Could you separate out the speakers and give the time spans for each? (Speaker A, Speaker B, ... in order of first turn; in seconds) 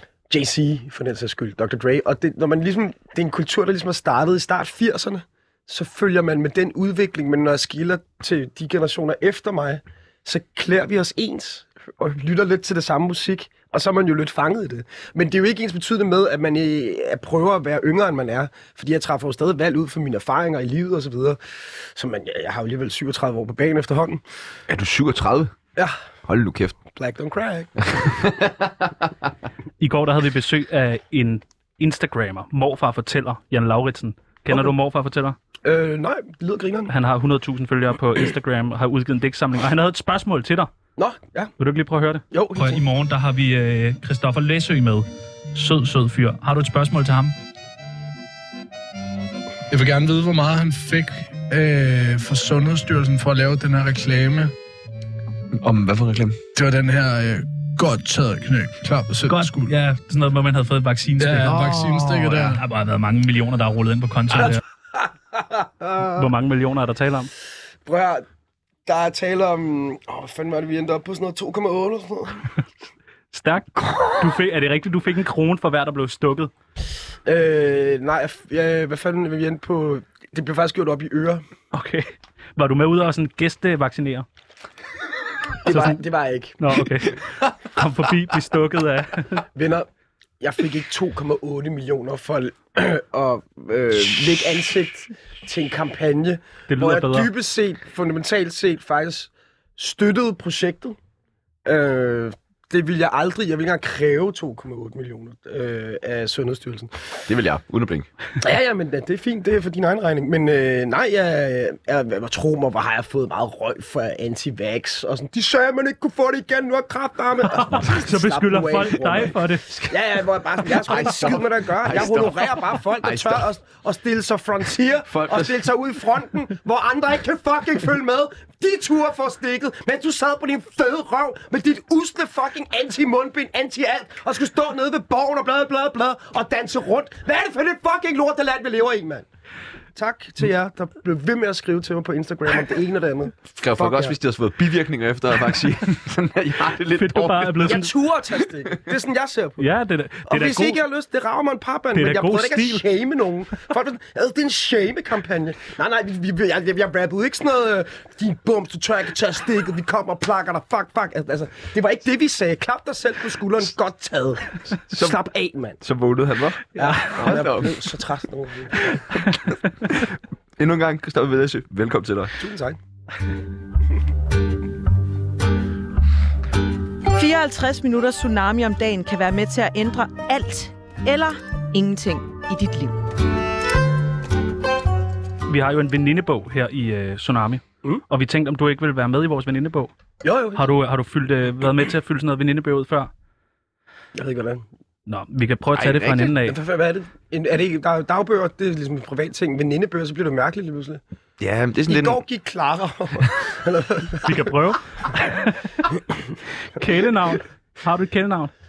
Speaker A: 0.3-24.2, 26.9-27.9, 35.6-36.9, 41.0-41.5, 42.3-42.8, 64.5-66.2, 67.8-68.2, 68.8-72.5, 73.8-74.2, 77.2-81.4, 85.6-86.6, 89.5-89.9, 90.4-101.0, 101.6-107.2, 108.4-139.2, 139.9-144.2, 147.6-149.6, 150.3-165.8, 166.8-169.1, 172.4-172.8, 190.2-190.7, 194.1-194.6, 196.3-201.0, 201.9-204.5
Speaker B: 24.7-25.5, 26.2-26.8, 27.9-29.1, 55.5-56.4, 61.4-62.5, 107.3-108.1, 120.7-123.5, 125.1-125.6, 143.5-147.8, 164.9-165.2, 165.8-167.8, 169.9-172.3, 195.7-196.3, 201.4-202.2
Speaker C: 29.8-35.4, 36.9-40.7, 41.6-47.3, 59.3-64.6, 66.1-67.3, 73.3-76.5, 81.7-84.2, 85.7-86.0, 86.6-89.4, 96.7-97.3, 117.5-119.9, 146.9-147.9, 149.6-150.8, 151.9-152.8, 185.5-189.9, 190.5-193.1, 195.1-196.6, 204.2-205.9, 206.7-208.5
Speaker D: 49.7-54.5, 56.5-59.7, 61.2-62.6
Speaker E: 177.1-183.0